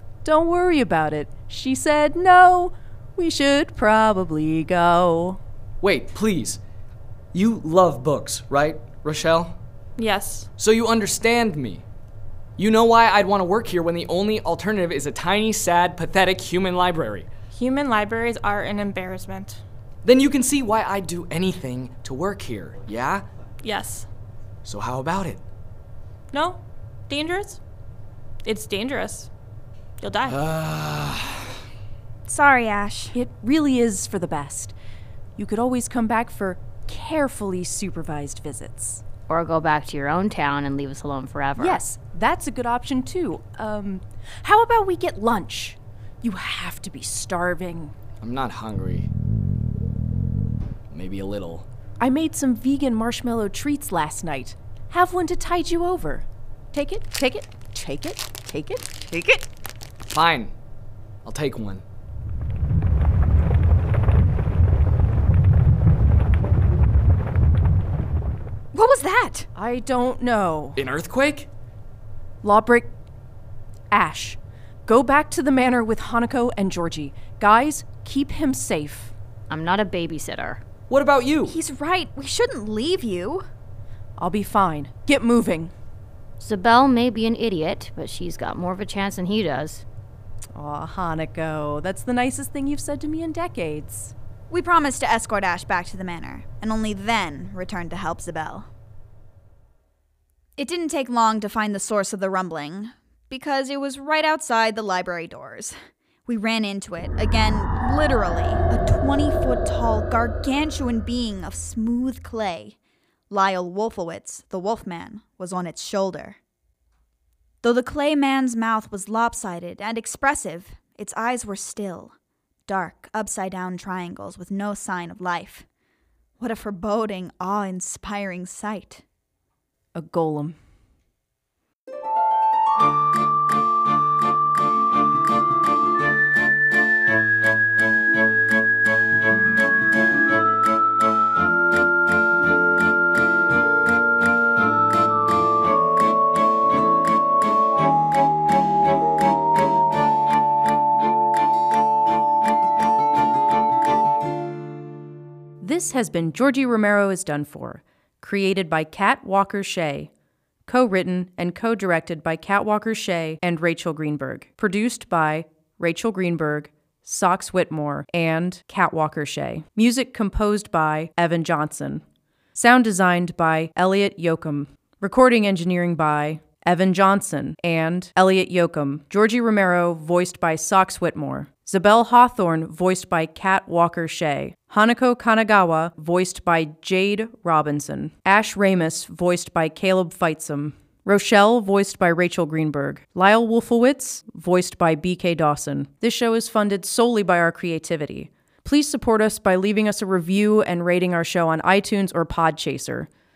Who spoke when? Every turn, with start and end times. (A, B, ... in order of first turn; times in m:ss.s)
0:00.2-0:05.4 A
0:05.8-0:06.6 B
0:07.3-0:09.6 B
0:10.0-0:10.5 C
0:10.6-0:11.8 B
0:12.6-0:17.3 B
0:17.5-0:19.6 C
0:20.0-0:23.2 B
0:23.6-0:24.1 C
0:24.6-0:25.4 B
0:26.3-0:27.6 C
0:28.4-0:29.3 C
0:30.0-0:30.4 C
0:30.3-0:31.5 B
0:32.2-0:33.2 D
0:33.1-0:34.7 A
0:35.4-0:39.0 A
0:39.3-0:41.8 E
0:41.6-0:47.9 A
0:48.2-0:49.1 B
0:50.9-0:51.7 B
0:52.0-0:58.9 A
0:59.1-0:59.4 D
1:00.1-1:00.5 B
1:01.2-1:01.8 B
1:08.7-1:09.5 D
1:09.5-1:10.8 A
1:10.8-1:11.5 B
1:12.4-1:12.9 A
1:13.9-1:19.1 A
1:19.5-1:20.6 E
1:20.9-1:21.6 B
1:21.4-1:23.4 D
1:24.2-1:25.7 A
1:26.4-1:29.8 E
1:30.5-1:34.1 A
1:34.5-1:38.7 D
1:40.6-1:52.8 D
1:53.3-1:56.4 D
1:57.6-2:02.1 D
2:02.7-2:05.6 D
2:06.4-2:09.0 D
2:09.9-2:10.6 A
2:35.6-2:40.1 A
2:40.6-3:23.1 A